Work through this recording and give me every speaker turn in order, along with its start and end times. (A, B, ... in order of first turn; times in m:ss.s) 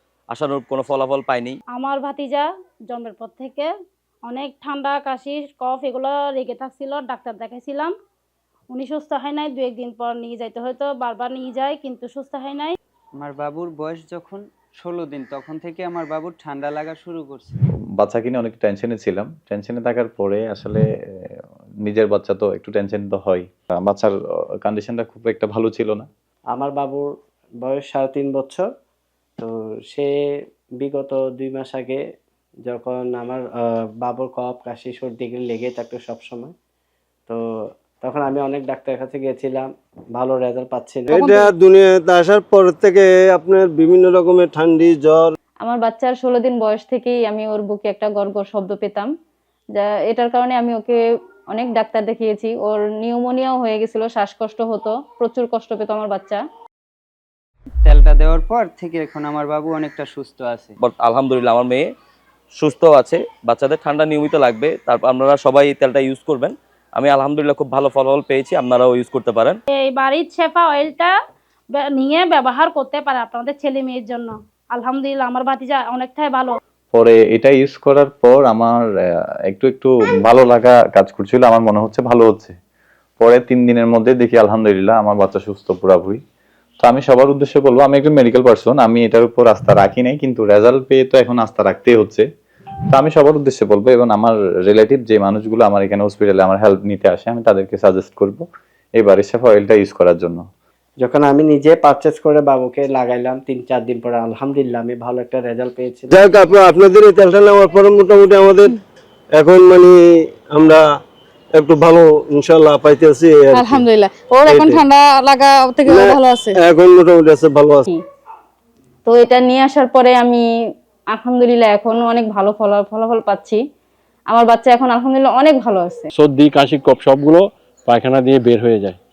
0:00.3-0:01.6 A
0:01.7-0:03.7 B
0:04.3-0:07.9 B
0:08.7-0:12.8 B
0:13.2-0:17.6 C
0:18.0-0:20.8 D
0:21.8-0:26.1 D
0:26.5-0:27.1 E
0:27.6-0:28.7 E
0:29.4-0:30.1 E
0:30.8-0:32.0 E
0:32.7-0:33.5 E
0:34.0-0:36.5 E
0:38.0-0:41.3 E
0:41.1-0:45.4 F
0:45.6-0:49.1 G
0:49.8-0:51.0 G
0:51.5-0:56.4 G
0:57.8-1:00.7 C
1:00.8-1:01.9 A
1:02.6-1:09.6 A
1:09.7-1:11.1 B
1:11.7-1:16.6 B
1:16.9-1:18.8 D
1:19.5-1:22.5 D
1:23.2-1:26.2 D
1:26.8-1:32.2 D
1:32.9-1:38.4 D
1:39.0-1:40.4 D
1:41.0-1:46.2 E
1:46.1-1:48.8 F
1:49.4-1:50.0 F
1:50.5-1:50.8 F
1:51.6-1:53.9 F
1:54.4-1:54.9 F
1:55.8-1:57.8 F
1:59.1-2:00.4 G
2:01.1-2:03.6 G
2:04.3-2:06.1 G
2:06.1-2:09.0 H